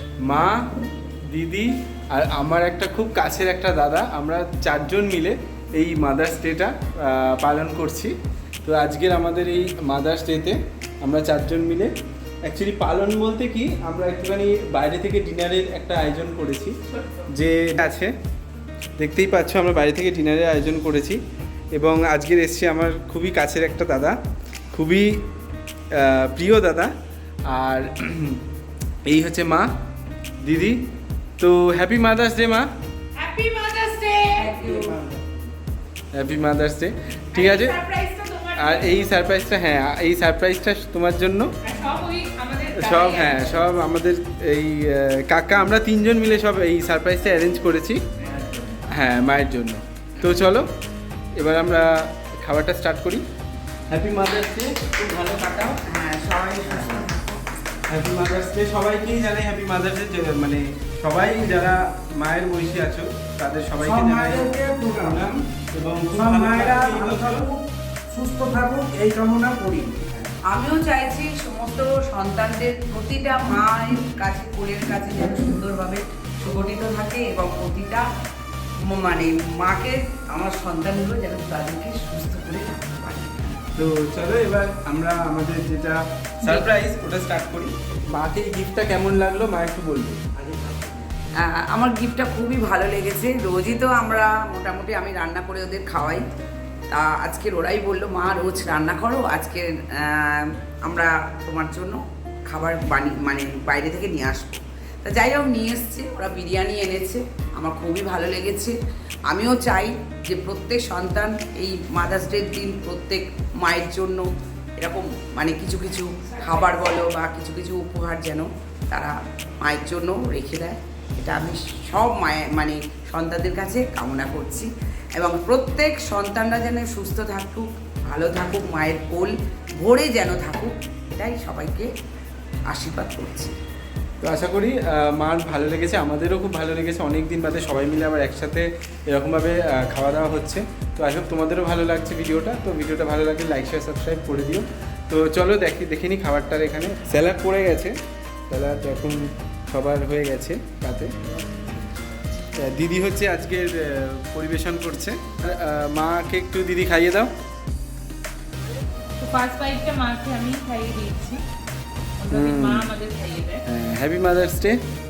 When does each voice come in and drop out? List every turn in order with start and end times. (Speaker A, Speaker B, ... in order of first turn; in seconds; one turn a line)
Speaker A: 0.2-0.6
Speaker A: 1.3-11.9
Speaker A: 12.4-16.8
Speaker B: 16.9-17.2
Speaker A: 17.3-18.1
Speaker A: 19.0-21.2
Speaker A: 21.7-24.1
Speaker A: 24.7-25.1
Speaker A: 25.9-26.9
Speaker A: 27.5-28.4
Speaker A: 29.0-29.7
Speaker A: 30.4-30.8
Speaker A: 31.4-32.7
Speaker B: 33.1-34.7
Speaker C: 34.4-35.2
Speaker A: 36.1-37.8
Speaker B: 37.3-39.1
Speaker A: 38.5-41.5
Speaker B: 41.6-43.8
Speaker A: 42.7-48.0
Speaker A: 48.9-50.7
Speaker A: 51.4-53.2
Speaker A: 53.9-55.8
Speaker C: 55.8-57.4
Speaker A: 56.6-57.0
Speaker A: 57.9-67.5
Speaker D: 63.8-65.2
Speaker D: 66.1-70.3
Speaker C: 70.5-78.1
Speaker C: 78.9-83.6
Speaker A: 83.8-90.9
Speaker C: 91.4-96.2
Speaker C: 96.9-108.7
Speaker C: 109.3-114.3
Speaker C: 114.8-131.9
Speaker B: 116.2-116.7
Speaker C: 132.7-133.5
Speaker A: 134.2-148.0
Speaker A: 148.5-151.6
Speaker A: 152.6-157.3
Speaker B: 159.2-161.4
Speaker B: 162.2-163.6
Speaker A: 162.3-162.9
Speaker A: 163.7-164.8